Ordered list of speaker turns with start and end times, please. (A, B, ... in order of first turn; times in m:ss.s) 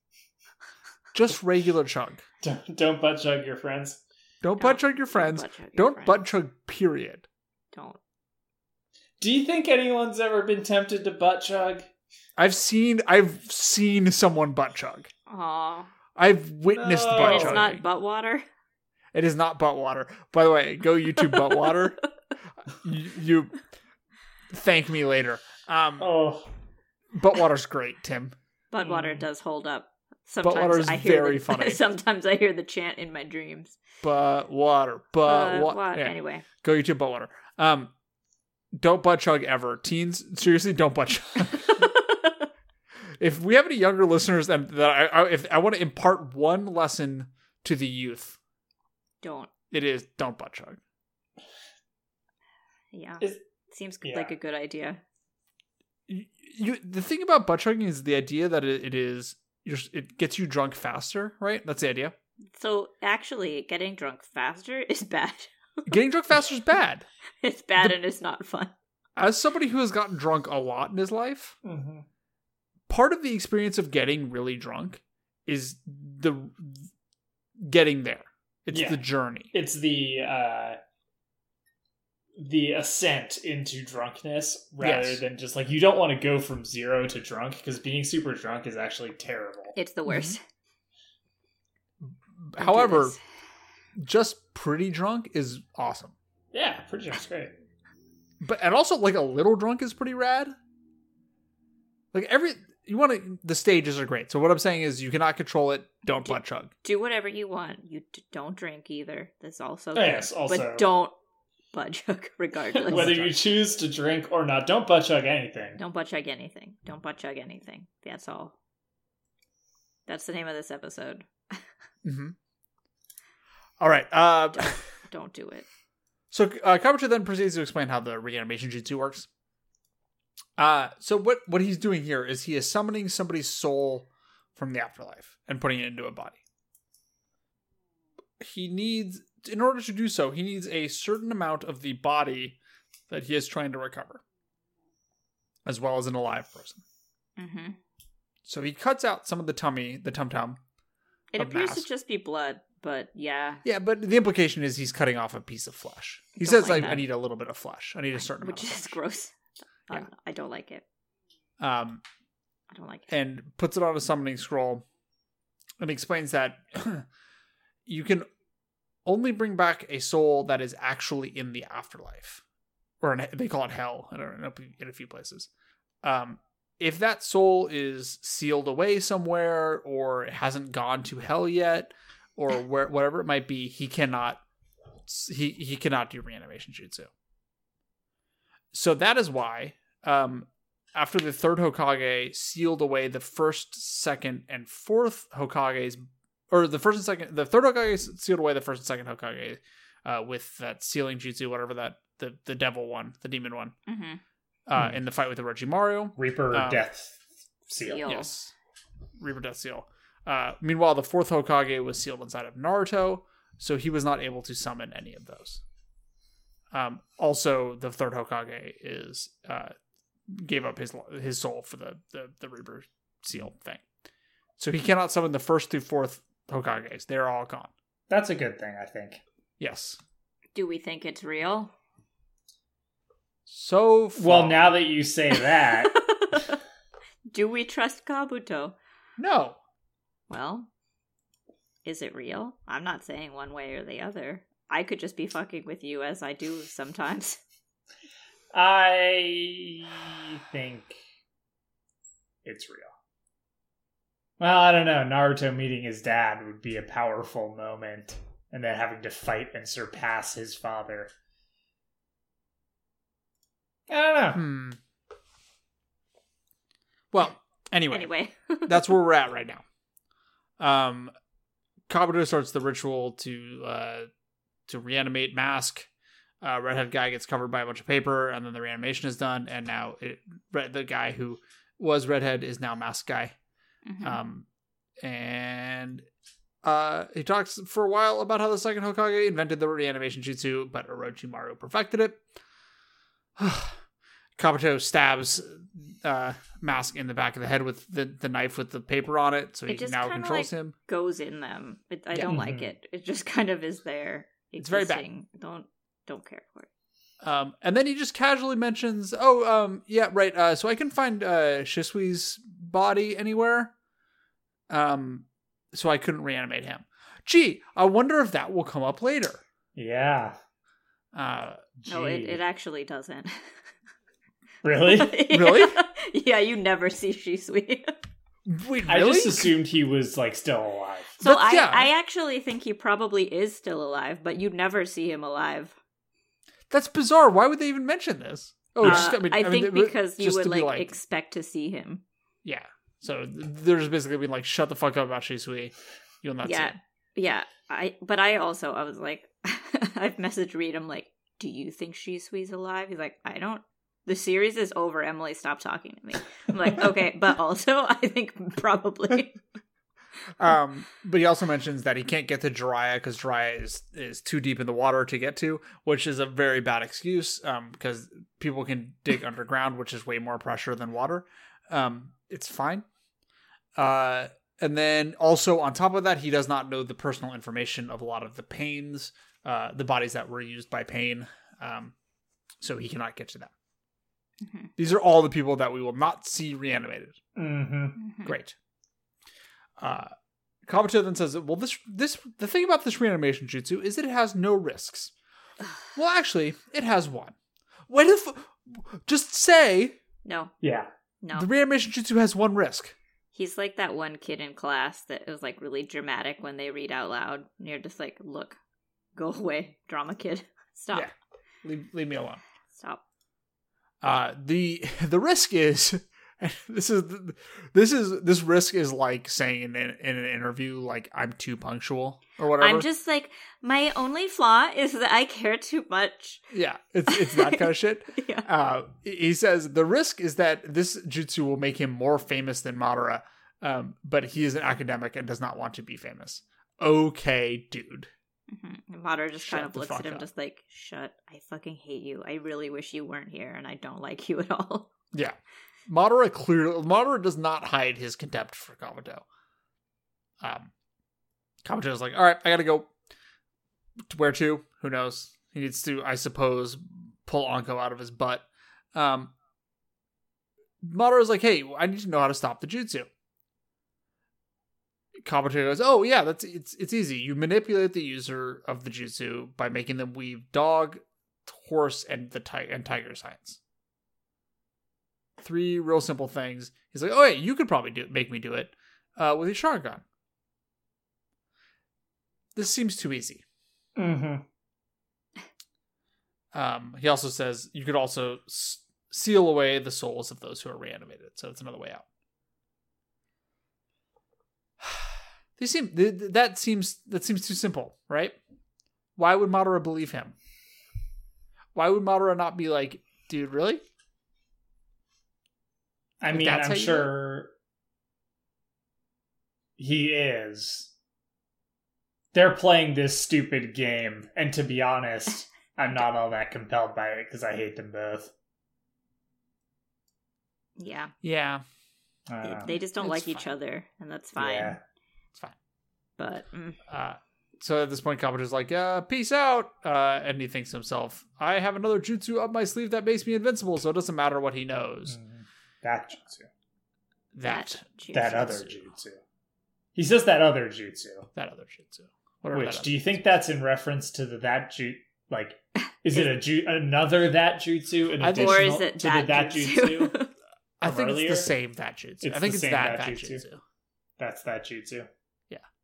0:01.1-0:02.2 A
0:02.4-0:04.0 B
0:04.4-0:07.3 A
0:04.6-0:06.2 C
0:07.7-0:08.0 C
0:09.2-0:11.9 B
0:12.4-0:15.1 A
0:15.3-0:15.9 C
0:16.2-0:17.8 A
0:16.7-0:17.6 B
0:17.2-0:18.4 C
0:19.1-0:22.0 A
0:21.3-0:21.8 C
0:22.7-0:23.6 A
0:24.5-0:26.1 A
0:26.0-0:26.5 B
0:27.1-0:28.4 A
0:28.7-0:33.8 C
0:28.8-0:29.3 B
0:30.4-0:31.8 A
0:34.0-0:37.9 A
0:35.2-0:36.5 C
0:38.8-0:41.9 A
0:41.8-0:42.5 C
0:43.2-0:48.4 A
0:49.2-0:49.5 C
0:49.7-0:50.8 A
0:52.9-0:55.0 C
0:54.0-0:54.3 B
0:56.1-1:02.1 A
1:02.6-1:05.9 C
1:05.9-1:07.0 A
1:07.4-1:08.7 C
1:09.2-1:11.6 A
1:11.6-1:12.1 B
1:12.9-1:16.9 A
1:17.6-1:19.5 A
1:18.7-1:20.8 B
1:22.4-1:29.8 B
1:24.8-1:25.2 A
1:29.8-1:30.4 C
1:30.1-1:30.4 A
1:32.4-1:33.2 A
1:32.6-1:33.2 C
1:34.0-1:36.2 A
1:36.5-1:37.5 B
1:38.4-1:40.5 A
1:42.1-1:46.7 A
1:46.8-1:51.1 C
1:50.0-1:50.9 B
1:51.7-1:53.2 C
1:52.7-1:55.8 B
1:52.9-1:53.4 A
1:55.8-1:58.6 C
2:00.1-2:01.6 C
2:02.0-2:02.4 A
2:03.8-2:04.8 A
2:04.5-2:05.7 C
2:06.3-2:09.3 A
2:10.6-2:16.4 A
2:18.4-2:22.6 A
2:23.1-2:24.2 A
2:25.7-2:26.8 A
2:27.4-2:27.8 C
2:28.5-2:30.6 A
2:31.3-2:33.6 C
2:31.4-2:31.9 A
2:33.6-2:39.0 A
2:36.4-2:37.1 C
2:38.2-2:40.8 C
2:41.6-2:42.0 A
2:42.7-2:43.1 C
2:43.1-2:44.8 A
2:45.8-2:47.1 A
2:47.9-2:48.3 A
2:49.0-2:52.4 A
2:53.0-2:55.5 A
2:56.0-3:04.4 A
3:05.1-3:07.1 A
3:08.7-3:23.8 A
3:23.9-3:24.2 C
3:24.7-3:26.9 A
3:26.2-3:28.3 B
3:27.8-3:28.3 C
3:28.1-3:28.5 A
3:29.2-3:35.6 A
3:36.7-3:39.8 A
3:40.3-3:43.8 A
3:44.6-3:47.7 A
3:48.1-3:49.2 B
3:49.6-3:50.0 A
3:50.6-3:51.7 C
3:53.5-3:54.7 A
3:54.2-3:56.0 B
3:55.8-3:56.6 C
3:57.3-3:58.8 C
3:59.2-3:59.6 A
4:00.3-4:00.7 C
4:01.8-4:07.4 C
4:08.5-4:11.0 B
4:12.4-4:12.9 B
4:14.4-4:21.1 B
4:23.9-4:24.4 B
4:24.3-4:24.8 A
4:27.1-4:28.1 A
4:27.9-4:29.0 C
4:28.7-4:29.6 A
4:30.6-4:31.1 A
4:31.9-4:34.1 A
4:34.7-4:35.9 A
4:36.4-4:43.4 A
4:43.8-4:44.2 C
4:44.0-4:44.5 A
4:45.0-4:46.0 A
4:46.6-4:52.2 A
4:53.4-4:53.8 A
4:54.4-5:00.8 A
4:59.7-5:06.7 C
5:02.2-5:02.7 B
5:04.6-5:05.1 A
5:07.2-5:13.7 A
5:14.7-5:19.4 A
5:19.8-5:20.4 B
5:21.1-5:21.6 A
5:21.8-5:22.4 B
5:21.9-5:23.5 C
5:24.6-5:25.2 B
5:24.8-5:28.0 C
5:25.3-5:25.8 A
5:28.5-5:29.5 A
5:28.9-5:31.2 B
5:31.2-5:35.8 C
5:31.2-5:31.9 A
5:36.7-5:41.0 A
5:38.8-5:42.0 C
5:42.4-5:46.8 A
5:46.4-5:59.4 C
6:00.4-6:12.8 A
6:13.8-6:22.0 A
6:22.6-6:23.5 A
6:24.4-6:24.7 C
6:24.8-6:27.2 A
6:27.4-6:28.0 B
6:28.0-6:28.3 C
6:28.2-6:28.6 A
6:29.8-6:30.1 A
6:30.7-6:35.1 A
6:35.9-6:37.4 A
6:37.9-6:40.0 A
6:40.2-6:40.5 C
6:40.6-6:40.9 B
6:41.2-6:41.5 C
6:41.3-6:43.0 A
6:43.3-6:48.6 C
6:49.2-6:51.1 C
6:51.6-6:52.4 A
6:52.7-6:53.0 C
6:54.0-7:02.9 A
7:02.6-7:06.5 C
7:06.5-7:18.1 A
7:07.1-7:08.5 C
7:18.5-7:24.9 C
7:19.4-7:20.3 A
7:25.9-7:29.2 A
7:30.4-7:30.7 A
7:31.6-7:32.9 A
7:34.1-7:39.3 A
7:40.8-7:43.1 A
7:45.2-7:53.6 A
7:55.4-8:00.0 A
8:02.6-8:03.4 A
8:04.0-8:04.4 B
8:06.5-8:12.0 A
8:14.8-8:18.4 A
8:19.2-8:20.4 A
8:21.8-8:23.8 A
8:26.2-8:27.5 B
8:26.3-8:27.1 A
8:29.8-8:30.9 B
8:32.3-8:38.3 B
8:40.8-8:41.1 C
8:41.2-8:41.6 A
8:42.3-8:42.7 B
8:42.4-8:44.8 C
8:42.6-8:43.5 A
8:44.4-8:44.8 B
8:46.2-8:46.8 C
8:46.9-8:55.2 A
8:55.1-8:56.5 B
8:57.3-8:57.8 A
8:57.5-8:58.8 C
8:58.1-8:59.2 B
9:00.0-9:01.3 B
9:01.4-9:03.2 A
9:02.5-9:10.2 B
9:08.2-9:08.8 A
9:08.3-9:10.3 C
9:10.8-9:13.6 A
9:10.8-9:11.5 B
9:12.2-9:13.4 B
9:14.2-9:15.1 B